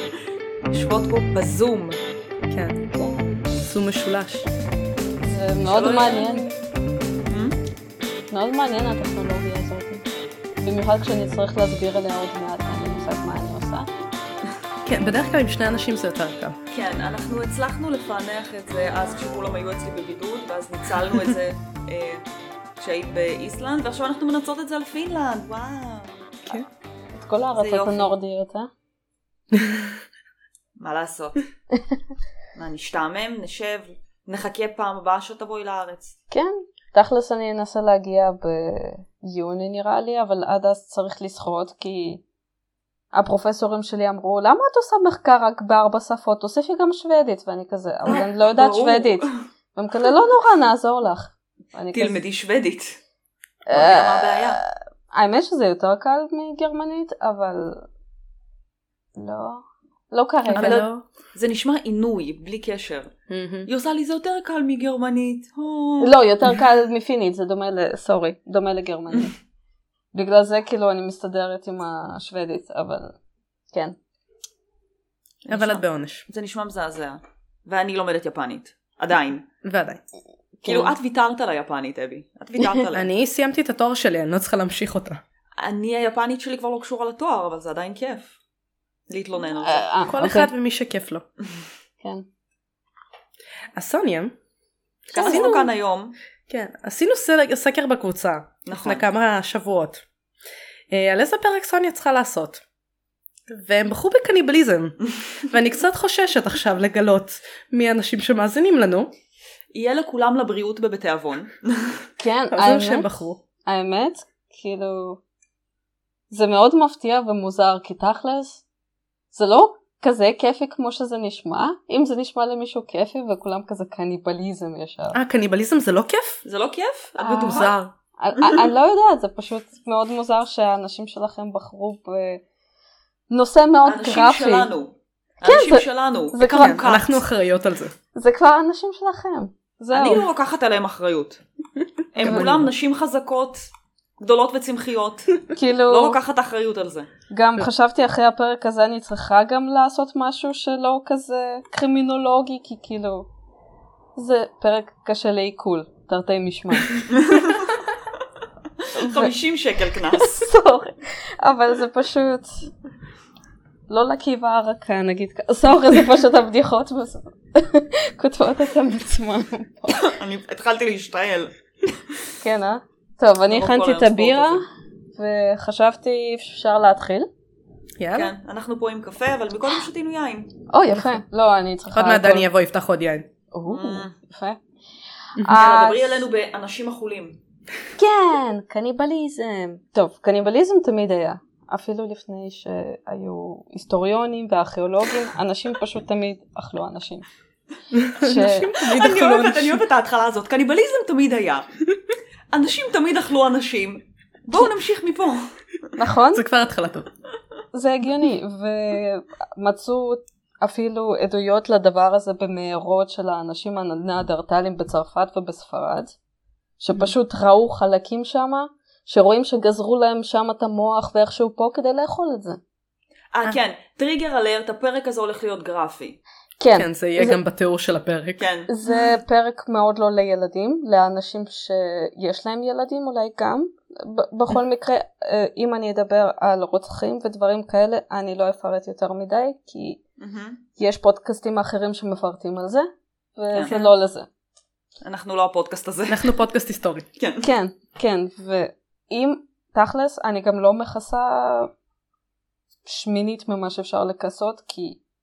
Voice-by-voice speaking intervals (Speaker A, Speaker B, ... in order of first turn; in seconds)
Speaker A: 0.7-2.0, 5.7-6.5, 7.3-7.6, 16.7-22.2, 22.8-26.6, 27.6-28.1, 30.8-31.4, 32.5-36.1, 48.1-49.4, 51.9-53.0, 53.7-54.6, 60.5-63.1, 63.6-66.1, 75.4-79.5, 80.7-83.1, 85.6-88.3, 89.1-89.8, 95.1-96.2, 98.7-99.0, 109.7-112.0, 126.4-127.7, 133.8-137.2, 139.9-141.4, 142.1-147.1, 157.1-157.7, 158.8-160.5, 169.9-172.0, 173.5-174.6, 178.1-180.5, 183.7-184.1, 185.5-187.4, 198.7-201.7, 202.5-205.5, 223.3-226.2, 228.4-228.7, 240.2-240.6, 243.5-243.9, 245.0-246.3, 247.2-247.5
Speaker B: 2.5-2.9, 3.5-4.5, 14.8-16.6, 29.5-29.9, 60.5-61.0, 63.3-63.7, 75.5-76.2, 79.6-80.0, 82.9-85.2, 90.1-91.2, 93.7-94.3, 95.1-95.7, 96.5-100.0, 100.9-102.6, 103.5-109.1, 112.5-113.4, 125.1-126.4, 127.2-127.9, 136.6-137.9, 142.2-142.7, 178.0-178.3, 181.9-183.3, 185.4-185.6, 197.9-199.8, 206.3-207.1, 226.7-228.4, 246.1-247.1
Speaker C: 5.2-6.5, 8.3-10.0, 10.6-13.9, 27.2-28.7, 36.3-42.2, 43.1-52.2, 53.6-57.9, 59.2-60.8, 66.0-69.3, 70.1-73.2, 73.7-74.0, 80.6-81.0, 89.6-90.5, 92.0-92.2, 95.1-95.7, 112.2-113.1, 113.7-115.2, 116.3-118.6, 119.3-125.2, 127.2-127.7, 128.2-132.4, 133.3-134.7, 135.4-136.8, 138.1-140.2, 142.2-142.5, 145.5-146.2, 147.3-153.3, 154.2-157.1, 158.9-159.3, 159.9-162.7, 163.9-170.1, 172.4-174.6, 175.1-177.3, 180.7-182.5, 183.5-184.6, 185.4-186.2, 188.0-197.2, 198.2-198.7, 206.0-206.4, 207.7-216.1, 216.8-222.6, 226.6-227.4, 228.7-240.0, 240.8-244.3, 247.4-251.7, 252.8-255.0